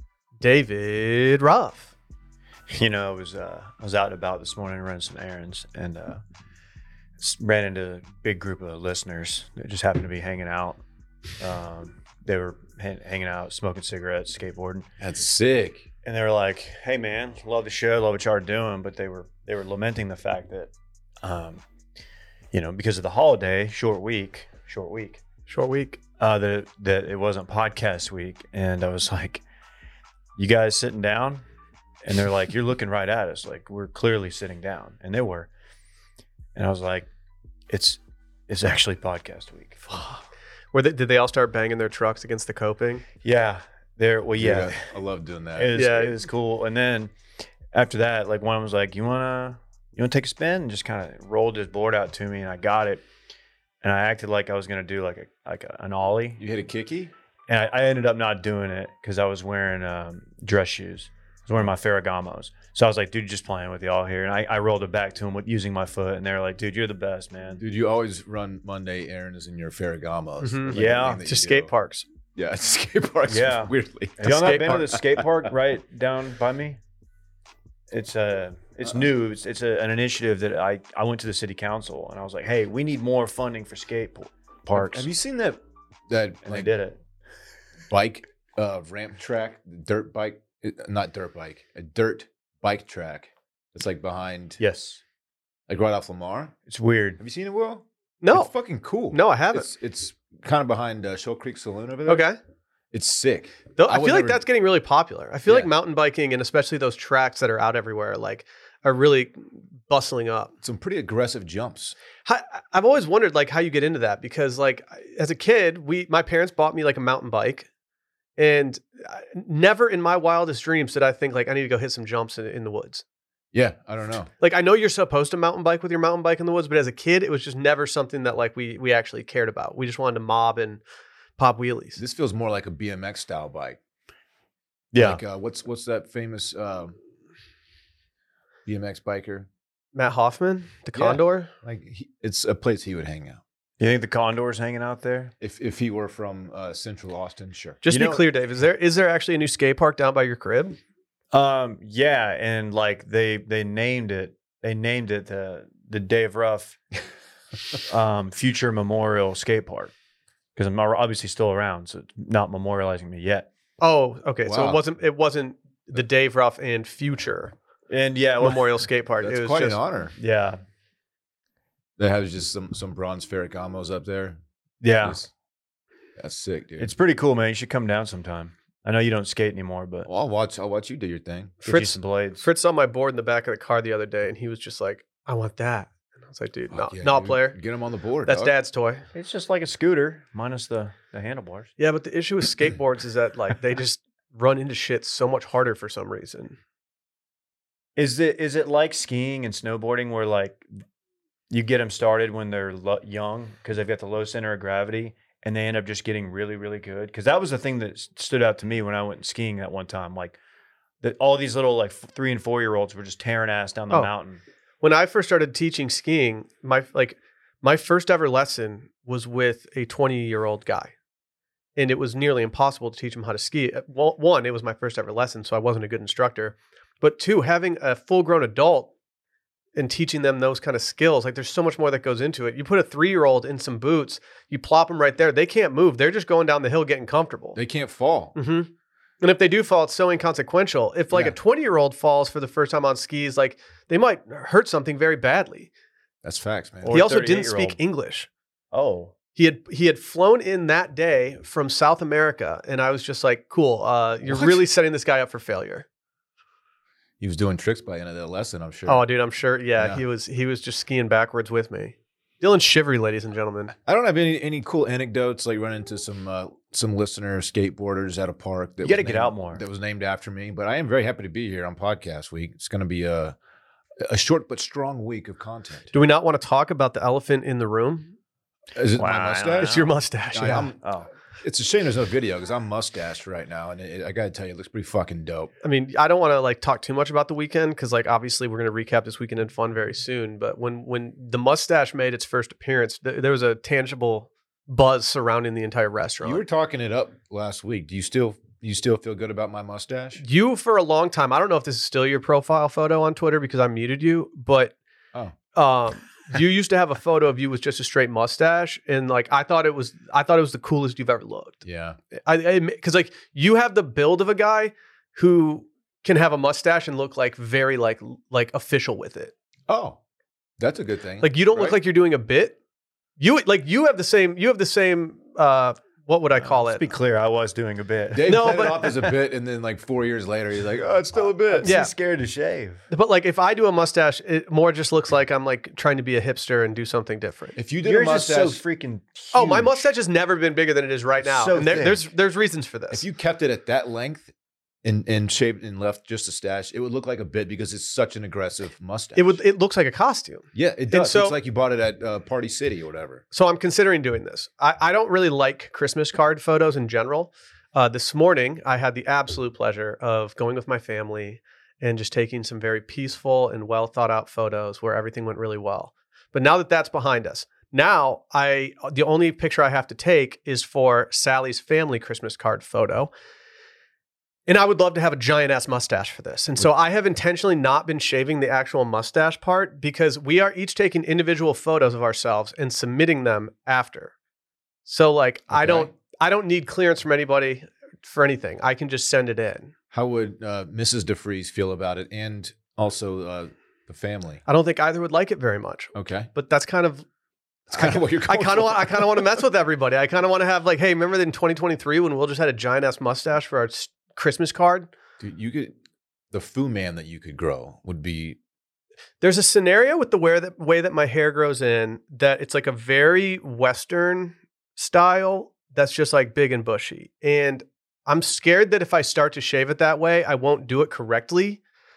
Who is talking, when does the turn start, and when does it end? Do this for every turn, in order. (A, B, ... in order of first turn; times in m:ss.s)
0:00.4-0:01.9 A
0:02.7-0:06.2 B
0:07.2-0:10.8 B
0:11.4-0:14.9 B
0:15.0-0:15.9 C
0:16.0-0:20.7 B
0:21.2-0:21.6 B
0:22.5-0:25.2 B
0:25.5-0:26.0 A
0:26.2-0:29.4 B
0:30.4-0:31.4 B
0:32.0-0:35.5 B
0:36.5-0:37.1 B
0:37.7-0:40.0 B
0:39.9-0:40.2 A
0:40.7-0:43.0 A
0:43.2-0:44.8 B
0:44.4-0:45.8 C
0:45.6-0:47.1 B
0:45.7-0:46.1 A
0:47.7-0:53.0 B
0:53.8-0:56.4 B
0:56.4-0:57.1 C
0:57.5-1:07.6 B
1:07.6-1:11.7 C
1:10.4-1:12.0 A
1:10.7-1:11.2 B
1:12.3-1:15.3 C
1:13.3-1:16.8 B
1:14.2-1:14.8 A
1:17.9-1:25.1 B
1:24.7-1:26.7 C
1:26.4-1:27.0 B
1:27.9-1:34.6 C
1:34.6-1:35.0 B
1:35.7-1:36.5 C
1:36.7-1:37.2 B
1:37.2-1:42.2 C
1:38.2-1:38.5 A
1:39.1-1:39.7 A
1:42.1-1:42.4 A
1:42.9-1:44.4 C
1:43.8-1:50.5 A
1:45.5-1:45.7 C
1:50.6-1:51.9 C
1:52.2-1:57.7 A
1:58.4-2:03.0 A
2:03.5-2:04.3 C
2:04.4-2:10.8 A
2:11.4-2:12.0 A
2:12.0-2:13.8 C
2:14.9-2:15.2 B
2:14.9-2:17.0 C
2:18.6-2:19.5 C
2:19.9-2:21.5 A
2:20.9-2:23.4 C
2:23.8-2:25.3 B
2:25.4-2:27.8 C
2:27.8-2:30.8 A
2:27.9-2:28.2 B
2:31.3-2:36.8 B
2:37.8-2:39.9 B
2:40.6-2:43.5 B
2:43.8-2:47.5 A
2:44.4-2:44.8 C
2:47.9-2:48.6 B
2:48.4-2:49.8 A
2:49.2-2:50.1 C
2:50.2-2:50.6 B
2:52.0-2:54.4 C
2:54.8-2:55.2 B
2:55.0-2:55.3 C
2:56.2-2:56.9 C
2:56.8-3:00.1 B
3:00.0-3:01.6 C
3:01.6-3:07.6 A
3:01.6-3:02.4 B
3:06.7-3:08.5 C
3:08.2-3:09.0 A
3:09.1-3:11.7 B
3:11.8-3:16.6 A
3:18.0-3:20.6 B
3:21.5-3:30.4 B
3:31.0-3:34.4 B
3:34.8-3:40.9 A
3:41.8-3:48.9 A
3:49.7-3:57.6 A
3:57.5-3:58.4 C
3:58.3-3:58.7 A
3:59.2-4:05.7 A
4:01.1-4:01.4 C
4:06.2-4:07.0 C
4:06.8-4:07.8 B
4:06.9-4:08.3 A
4:08.7-4:09.1 B
4:09.3-4:15.8 A
4:14.3-4:14.6 C
4:17.2-4:19.0 C
4:18.9-4:23.7 A
4:19.8-4:20.0 C
4:23.8-4:33.4 C
4:28.8-4:29.6 B
4:34.0-4:35.9 C
4:35.9-4:38.1 A
4:38.7-4:39.8 C
4:39.0-4:39.9 B
4:39.6-4:40.7 A
4:40.3-4:40.8 C
4:40.8-4:41.1 B
4:41.4-4:45.5 C
4:45.6-4:56.4 A
4:56.2-5:00.2 C
5:00.2-5:04.7 A
5:05.5-5:11.6 A
5:11.6-5:12.0 C
5:12.2-5:19.3 A
5:19.7-5:20.0 C
5:20.6-5:21.8 C
5:21.2-5:22.6 A
5:23.2-5:26.8 A
5:26.4-5:29.1 B
5:28.1-5:31.7 C
5:28.3-5:28.9 A
5:31.2-5:32.8 B
5:31.6-5:31.9 A
5:32.9-5:37.6 A
5:37.6-5:38.6 C
5:37.8-5:39.8 B
5:39.3-5:43.0 A
5:41.2-5:42.1 B
5:42.9-5:44.3 C
5:44.8-5:49.4 C
5:49.2-5:51.4 A
5:50.5-5:53.2 C
5:53.3-6:13.1 A
6:14.5-6:24.1 A
6:24.8-6:29.7 A
6:25.5-6:25.9 C
6:29.9-6:34.4 C
6:34.4-6:37.0 A
6:35.9-6:36.3 C
6:37.7-6:39.2 C
6:37.7-6:44.9 A
6:45.2-6:45.8 C
6:46.3-6:48.4 C
6:49.2-7:01.6 A